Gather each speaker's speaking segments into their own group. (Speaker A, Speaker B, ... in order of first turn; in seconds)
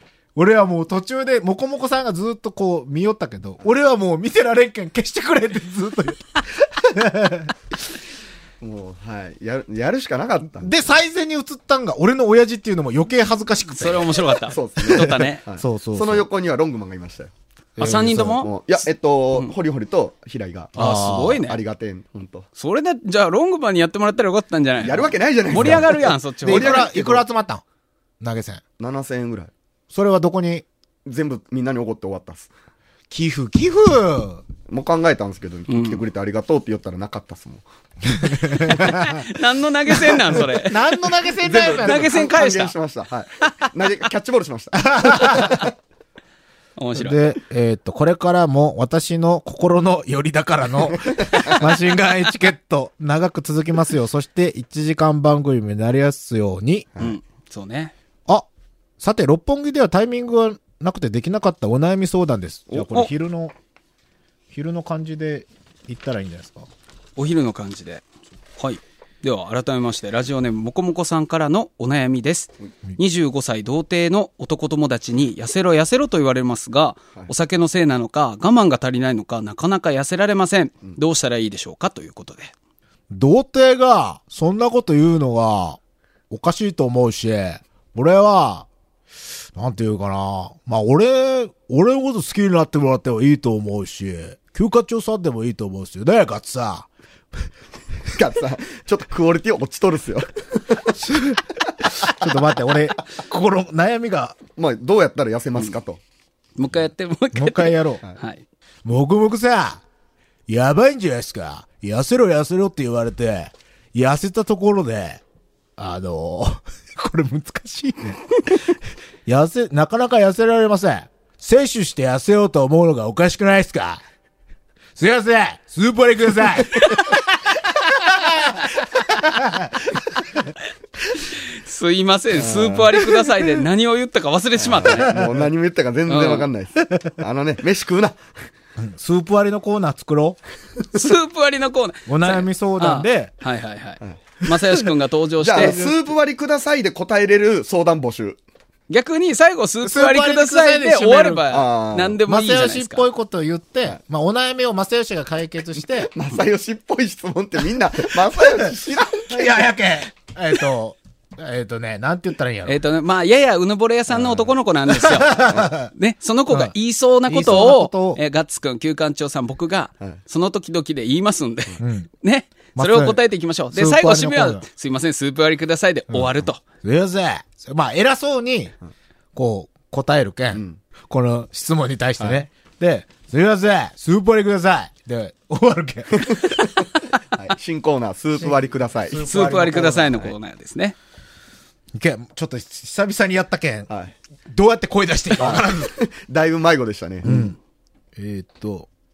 Speaker A: 0.3-7.5, 10.4-16.3, 17.8-18.5, 20.8-21.4, 25.5-27.6, 28.2-28.6, 29.9-30.6, 33.1-34.4, 38.1-39.2, 40.3-42.2, 44.8-45.7, 47.0-56.9, 59.0-63.5, 64.5-66.7, 83.1-85.8, 86.3-88.7, 89.5-96.9, 101.0-104.4, 107.3-108.0, 108.8-109.8, 110.5-115.2, 115.8-118.2, 119.3-124.0, 125.0-130.5, 135.1-135.4, 138.8-140.4, 142.1-143.3, 145.6-146.1, 149.8-151.5, 152.3-156.1, 158.4-158.7, 159.3-162.8, 164.9-165.9, 167.3-168.2, 171.8-172.1, 172.8-173.2, 173.7-174.7, 176.1-178.7, 179.3-186.6, 189.1-190.3, 192.0-193.9, 194.5-195.9, 197.2-197.6, 198.2-198.9
Speaker B: 8.6-10.9, 14.5-17.3, 17.9-22.5, 24.8-27.2, 28.8-29.5, 31.1-32.5, 34.7-37.6, 38.7-38.9, 41.4-45.7, 50.9-51.6, 98.1-101.0, 104.6-106.0, 132.3-133.2, 134.6-138.2, 145.4-148.4, 151.5-152.2, 156.0-159.6, 165.4-165.7, 180.5-180.8, 182.2-182.5, 186.1-189.3, 193.9-194.1, 195.4-197.5
Speaker C: 13.7-15.4, 17.8-18.5, 20.8-21.6, 22.6-26.9, 35.7-36.0, 38.6-41.0, 41.6-42.8, 43.4-43.7, 46.8-47.3, 51.3-51.6, 57.0-57.9, 67.2-68.0, 68.6-82.5, 106.6-108.4, 126.8-127.0, 131.3-135.2, 136.1-136.5, 140.9-145.8, 148.9-153.1, 162.7-176.6, 189.2-191.0